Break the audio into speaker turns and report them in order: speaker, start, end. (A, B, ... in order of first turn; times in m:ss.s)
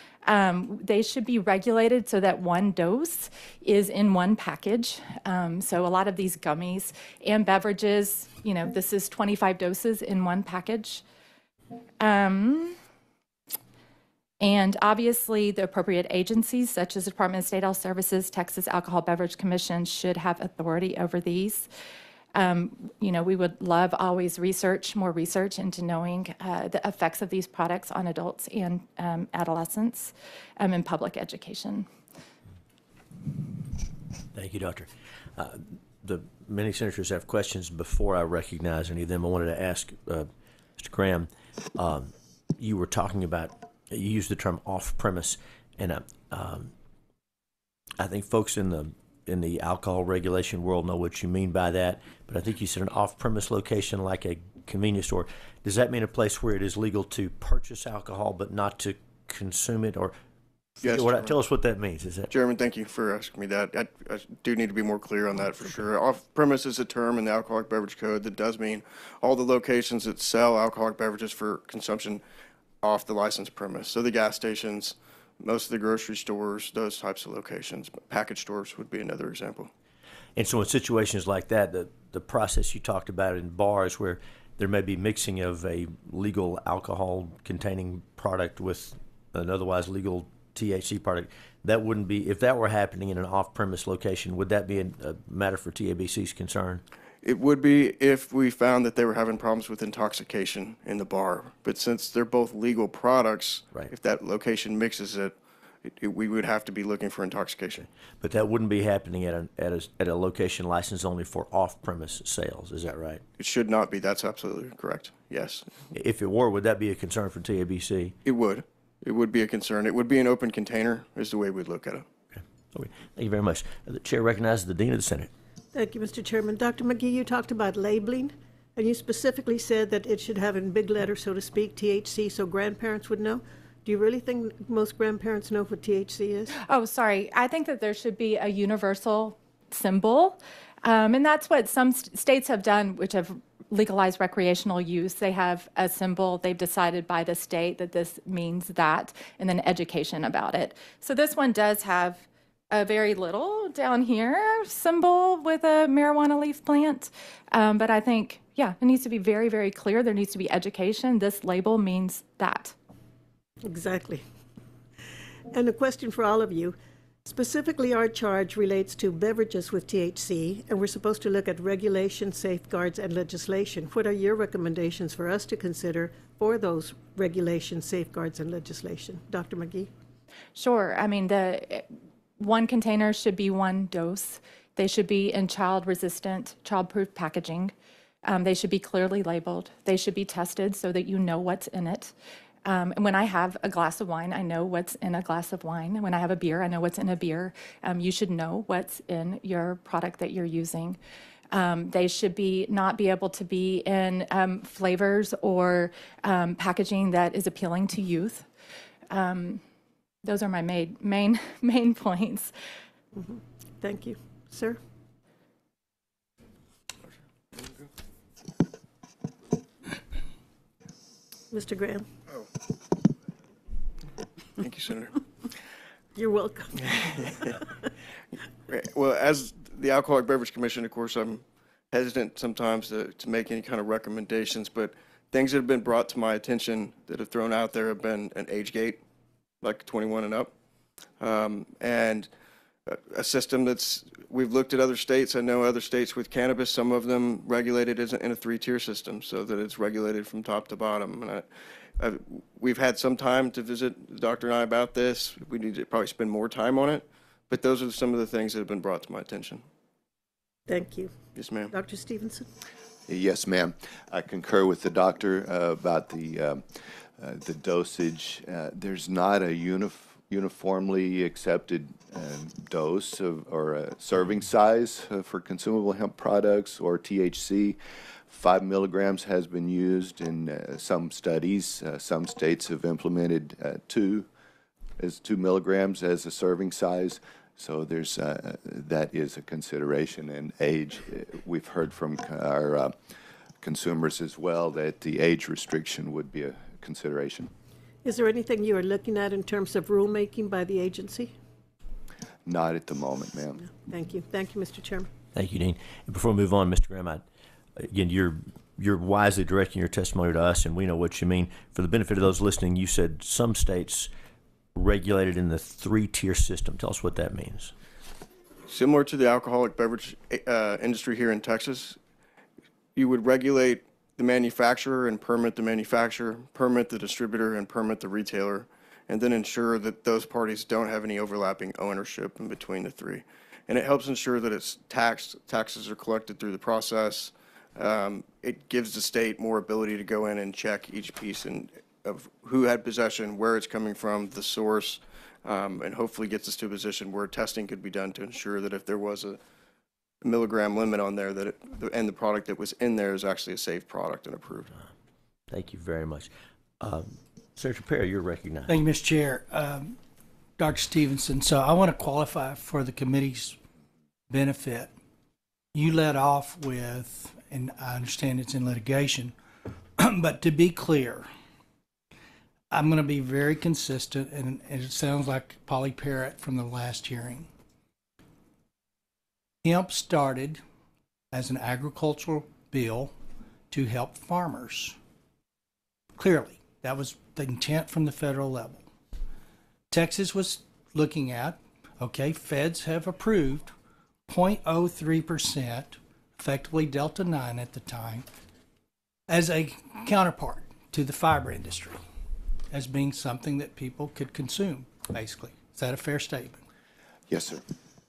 0:00.2-0:11.0 A
0:12.0-0:12.8 A
0:14.4-0:21.7 A
0:22.3-0:31.9 A
0:34.3-0:46.7 B
0:48.0-1:00.2 B
1:00.8-1:01.3 C
1:00.8-1:02.3 B
1:02.3-1:12.2 C
1:12.8-1:19.7 C
1:20.4-1:36.8 B
1:37.2-1:47.9 C
1:48.2-1:53.2 B
1:53.4-1:55.7 C
1:55.9-1:58.1 B
1:58.2-2:02.0 C
2:02.3-2:05.3 B
2:05.7-2:16.5 D
2:16.6-2:42.7 A
2:43.6-2:44.2 D
2:45.5-2:59.9 D
3:00.5-3:01.8 A
3:02.4-3:07.7 A
3:08.2-3:12.1 A
3:12.6-3:21.0 A
3:21.5-3:28.5 A
3:29.1-3:29.6 A
3:30.2-3:32.5 A
3:33.1-3:34.8 D
3:41.5-3:42.1 D
3:44.6-3:45.2 C
3:46.1-3:47.5 D
3:48.7-3:59.0 C
3:59.6-4:00.5 C
4:01.2-4:02.3 C
4:02.9-4:11.4 C
4:12.0-4:19.6 C
4:20.7-4:21.1 D
4:21.4-4:21.7 C
4:21.7-4:22.4 D
4:23.1-4:26.6 E
4:27.2-4:37.8 E
4:38.3-4:44.3 E
4:45.0-4:52.9 E
4:53.6-4:57.5 E
4:58.0-5:01.3 D
5:02.4-5:03.6 E
5:03.6-5:05.1 D
5:05.3-5:07.2 B
5:07.8-5:14.1 B
5:14.7-5:17.7 B
5:18.7-5:22.0 C
5:22.9-5:49.4 C
5:50.2-5:54.7 C
5:55.5-5:58.8 B
5:58.7-6:00.0 F
6:00.6-6:03.6 F
6:04.3-6:04.9 F
6:05.7-6:09.3 F
6:10.0-6:11.3 F
6:12.7-6:17.5 F
6:19.6-6:20.6 F
6:21.3-6:23.1 F
6:23.7-6:25.0 F
6:26.2-6:28.8 F
6:29.9-6:33.7 F
6:34.3-6:38.2 F
6:39.3-6:42.0 F
6:42.7-6:46.6 F
6:47.3-6:47.6 E